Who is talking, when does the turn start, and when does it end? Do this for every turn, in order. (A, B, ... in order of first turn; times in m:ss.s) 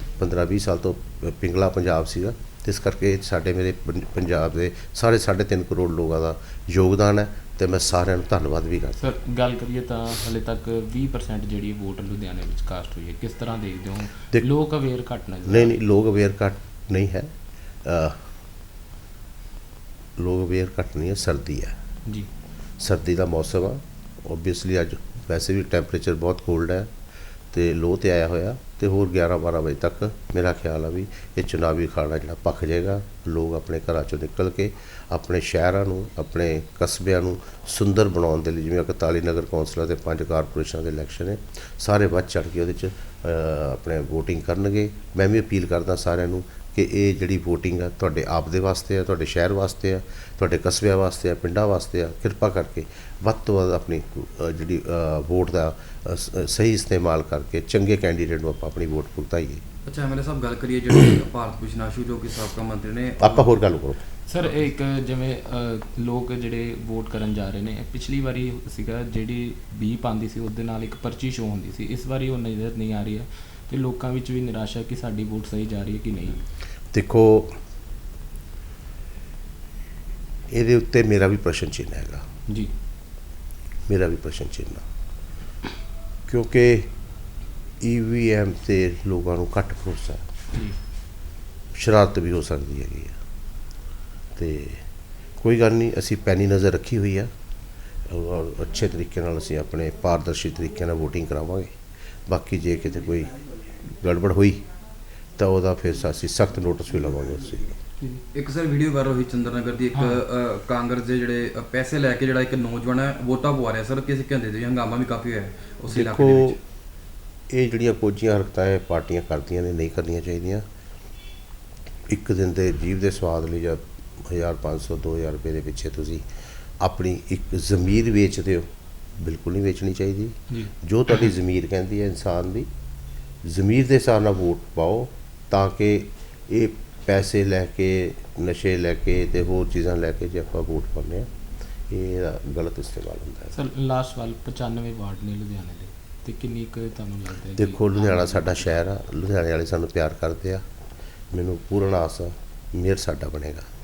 0:00.2-0:09.0 A
0:09.0-0:15.8 B
0:15.4-0:17.3 A
0:17.8-0:18.2 A
0:20.2-0:21.7 A
0:22.8-0:26.9 A
0:27.5-0:59.6 A
0:59.8-1:03.5 C
1:03.2-1:04.0 A
1:04.3-1:16.4 B
1:16.9-1:17.5 A
1:20.5-1:22.2 A
1:22.5-1:22.7 B
1:23.9-1:24.8 A
1:26.3-1:26.9 A
1:27.8-1:30.2 A
1:30.5-1:30.8 B
1:31.7-1:33.1 A
1:34.4-1:34.8 A
1:35.4-1:37.3 A
1:38.1-1:41.7 A
1:42.3-1:44.6 A
1:45.4-1:47.8 A
1:48.3-1:56.6 C
1:49.9-1:50.2 B
1:55.9-1:56.6 A
1:57.5-2:00.6 A
2:02.1-2:06.2 A
2:06.8-2:08.7 A
2:09.2-2:12.7 A
2:13.4-2:21.3 A
2:21.9-2:23.5 A
2:23.5-2:28.6 B
2:27.6-2:30.6 A
2:31.3-2:33.6 A